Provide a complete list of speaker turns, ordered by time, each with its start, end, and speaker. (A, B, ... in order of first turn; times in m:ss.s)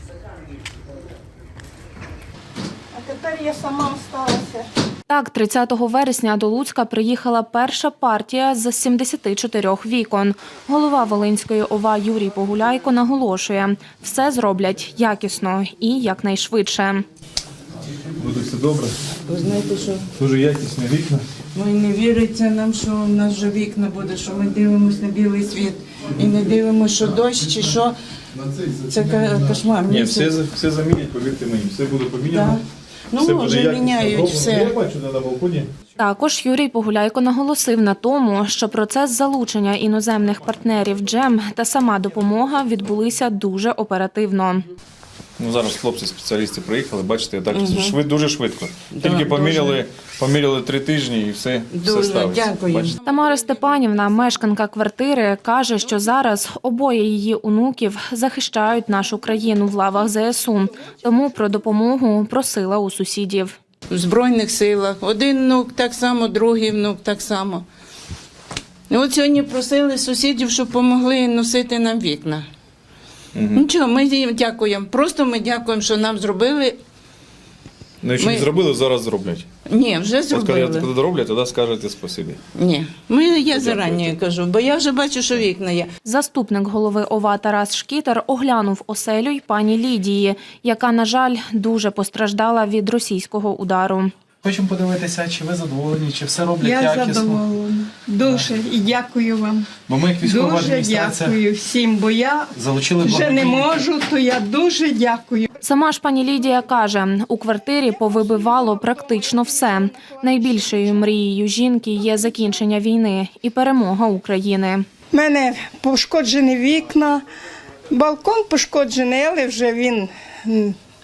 0:02.9-0:04.7 A
0:05.1-0:17.0 B
0:18.2-0:19.0 C
0:19.3-0:20.1 D
0:20.1-0:21.2 C
0:21.5-0:28.0 D
0:28.5-0:29.0 E
0:28.7-0:30.3 D
0:29.9-0:32.6 C
0:32.3-0:34.8 D
0:33.2-0:35.7 C
0:36.0-0:44.6 B
0:45.4-0:52.9 C
0:47.5-0:48.0 D
0:48.9-0:49.8 D
0:51.7-0:53.7 D
0:53.0-1:03.5 B
1:03.9-1:07.6 D
1:08.9-1:12.4 D
1:13.3-1:13.6 C
1:13.5-1:16.8 D
1:18.0-1:19.5 C
1:18.2-1:18.5 D
1:19.7-1:20.9 D
1:20.3-1:22.4 C
1:22.5-1:25.9 D
1:23.5-1:24.1 C
1:26.0-1:34.1 B
1:34.4-1:37.4 E
1:36.6-1:45.5 A
1:38.2-1:38.5 E
1:39.9-1:41.4 E
1:42.5-1:43.8 E
1:45.6-1:54.8 B
1:48.5-1:50.2 A
1:55.1-1:57.2 A
1:57.9-2:00.8 A